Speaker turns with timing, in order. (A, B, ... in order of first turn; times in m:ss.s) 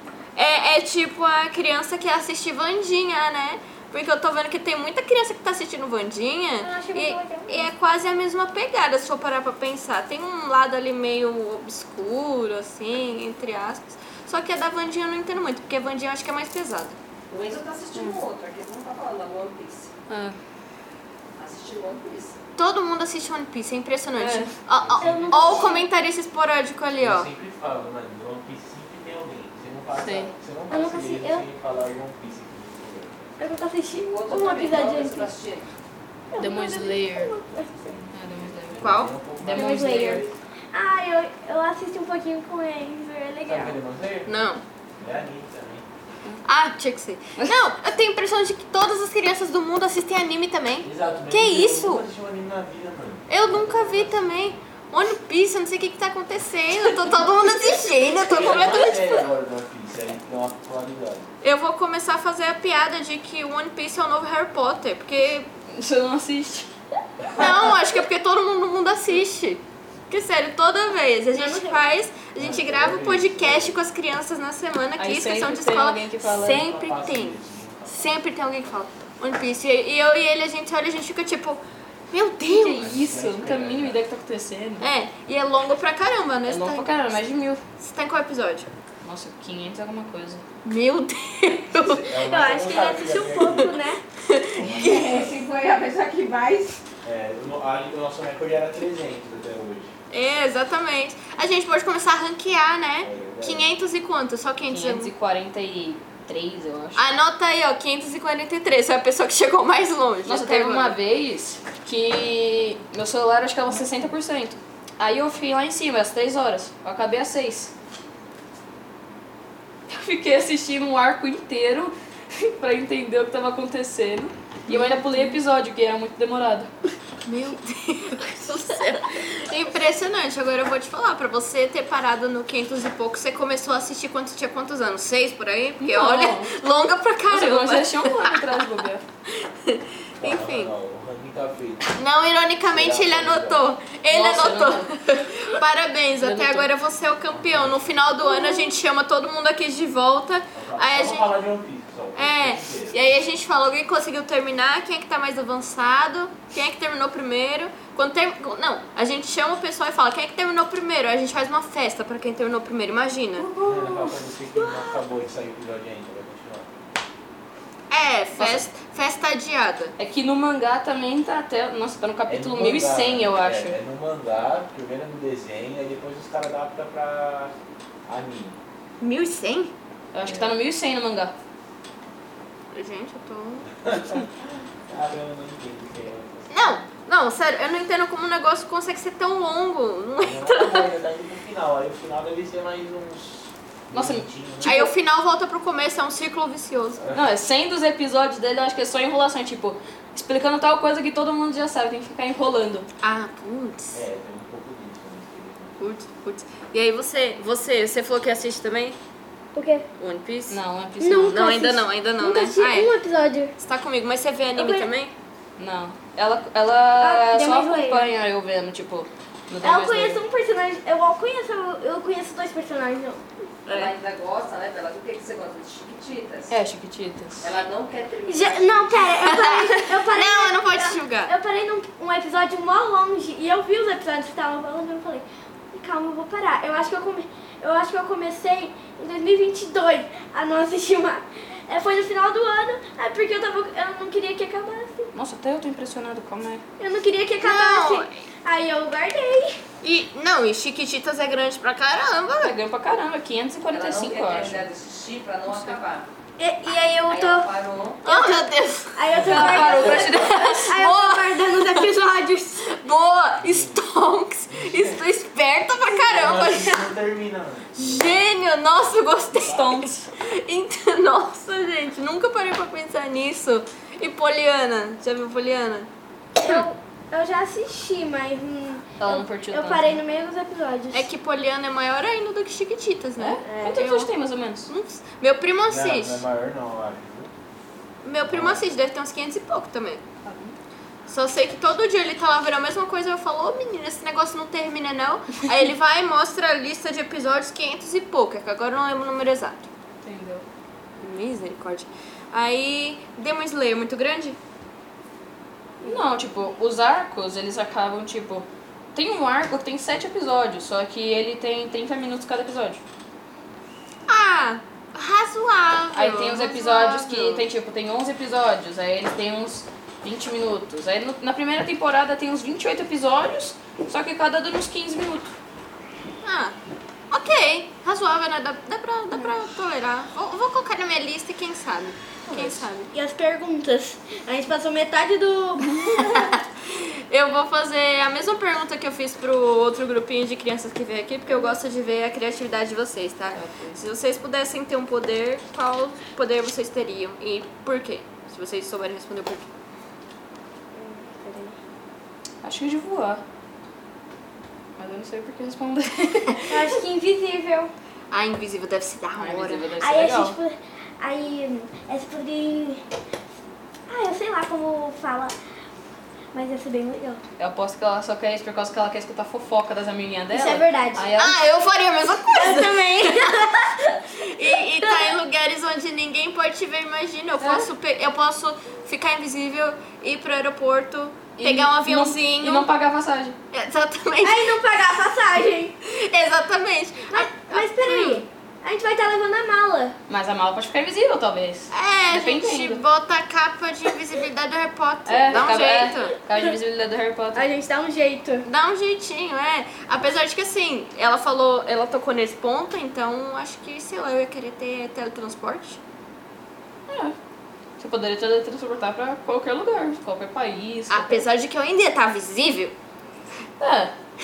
0:00.4-0:17.0 A
0:06.6-0:07.7 B
0:17.3-0:19.9 C
0:18.0-0:18.2 D
0:20.1-0:20.4 D
0:21.4-0:22.4 C
0:22.6-0:27.3 A
0:24.2-0:24.6 D
0:24.8-0:25.6 E
0:25.0-0:25.9 B
0:27.0-0:33.3 E
0:30.0-0:30.3 D
0:30.7-0:31.5 B
0:33.4-0:35.4 B
0:34.1-0:35.7 C
0:36.3-0:38.0 B
0:36.4-0:37.3 D
0:38.1-0:38.8 D
0:38.7-0:40.3 E
0:38.8-0:39.2 A
0:39.4-0:40.2 D
0:39.6-0:43.8 B
0:43.5-0:44.3 E
0:44.3-0:44.6 A
0:45.0-0:45.9 E
0:46.4-0:52.0 A
0:50.8-0:54.5 E
0:53.3-0:59.2 A
0:58.3-1:01.3 E
1:01.4-1:05.5 A
1:05.7-1:06.7 D
1:07.4-1:22.8 A
1:11.3-1:11.8 B
1:12.4-1:13.8 E
1:15.0-1:16.6 D
1:16.2-1:18.2 E
1:22.4-1:24.9 D
1:22.8-1:24.0 E
1:24.8-1:26.9 A
1:26.5-1:27.6 D
1:27.8-1:28.7 A
1:29.0-1:30.4 D
1:30.6-1:32.1 A
1:31.7-1:33.8 E
1:32.3-1:34.0 B
1:34.2-1:35.0 A
1:34.5-1:35.4 E
1:34.8-1:35.2 B
1:34.8-1:36.4 D
1:35.5-1:36.8 C
1:37.0-1:39.9 E
1:40.1-1:45.1 A
1:43.0-1:43.7 E
1:44.7-1:47.0 D
1:47.0-1:51.0 A
1:50.2-1:57.7 D
1:59.9-2:06.7 D
2:04.7-2:05.3 A
2:07.3-2:18.4 A
2:15.8-2:16.5 D
2:17.3-2:19.0 D
2:19.4-2:20.7 A
2:20.2-2:22.0 E
2:21.9-2:31.4 A
2:22.7-2:23.6 E
2:24.1-2:24.9 D
2:26.2-2:26.7 D
2:27.3-2:27.8 E
2:28.3-2:28.7 B
2:30.6-2:33.0 E
2:32.2-2:43.5 A
2:43.5-2:44.1 D
2:43.6-2:46.7 E
2:47.9-2:49.9 A
2:48.4-2:48.7 D
2:50.0-2:53.8 D
2:52.3-2:57.5 E
2:58.1-2:58.6 E
2:59.0-2:59.7 A
3:00.1-3:01.3 D
3:00.2-3:00.6 E
3:02.7-3:03.7 A
3:03.9-3:06.8 E
3:06.5-3:10.9 A
3:10.2-3:14.8 E
3:13.9-3:14.9 D
3:14.6-3:17.1 A
3:17.1-3:22.9 D
3:23.0-3:24.0 A
3:23.9-3:25.8 E
3:25.8-3:29.0 A
3:29.5-3:29.9 B
3:30.0-3:30.6 A
3:30.5-3:31.4 D
3:31.0-3:33.5 B
3:31.2-3:32.9 A
3:33.6-3:35.1 A
3:34.6-3:34.9 B
3:35.6-3:40.2 D
3:37.0-3:38.1 B
3:39.6-3:43.2 B
3:43.6-3:43.9 A
3:43.7-3:46.6 C
3:46.5-3:47.5 D
3:47.4-3:48.7 C
3:48.2-4:05.1 B
3:49.0-3:51.3 A
4:05.1-4:06.6 D
4:06.8-4:09.6 B
4:07.4-4:08.1 A
4:09.8-4:12.6 A
4:12.4-4:14.7 D
4:13.7-4:16.1 C
4:16.4-4:17.5 B
4:17.1-4:18.0 C
4:18.0-4:18.4 B
4:18.0-4:21.9 A
4:18.9-4:22.7 B
4:19.2-4:20.2 E
4:19.2-4:20.7 D
4:22.6-4:26.9 A
4:23.4-4:23.8 E
4:24.5-4:25.0 E
4:26.0-4:28.2 E
4:27.8-4:35.9 A
4:29.4-4:30.1 D
4:36.4-4:41.1 B
4:39.0-4:40.0 D
4:40.9-4:44.1 A
4:43.2-4:44.7 D
4:43.4-4:43.8 B
4:44.7-4:46.2 A
4:45.7-4:47.3 E
4:48.0-4:50.0 A
4:48.3-4:48.6 E
4:50.2-4:50.6 D
4:51.1-4:59.7 A
5:00.0-5:00.4 D
5:01.0-5:04.4 A
5:05.8-5:12.8 D
5:14.1-5:17.4 A
5:15.9-5:25.3 D
5:26.2-5:26.6 A
5:27.1-5:32.9 A
5:32.3-5:32.6 D
5:32.9-5:36.1 B
5:36.0-5:49.5 A
5:43.3-5:43.8 D
5:50.7-5:51.6 B
5:52.4-5:53.2 D
5:54.8-5:56.7 D
5:56.5-5:57.7 B
5:58.1-5:59.6 A
5:59.2-6:00.4 D
5:59.8-6:02.8 B
6:03.9-6:05.4 B
6:06.3-6:07.2 B
6:07.4-6:11.4 D
6:10.3-6:11.1 B
6:11.2-6:13.5 A
6:12.3-6:15.2 B
6:14.2-6:22.7 A
6:17.4-6:17.7 D
6:21.4-6:23.4 D
6:23.5-6:24.8 A
6:24.2-6:25.7 B
6:25.8-6:28.2 A
6:27.1-6:30.0 B
6:30.1-6:32.8 D
6:31.7-6:36.2 A
6:35.1-6:37.5 D
6:37.4-6:38.4 B
6:38.4-6:45.8 A
6:46.9-6:47.2 D
6:47.8-6:51.2 D
6:50.9-6:52.7 A
6:53.6-6:53.9 D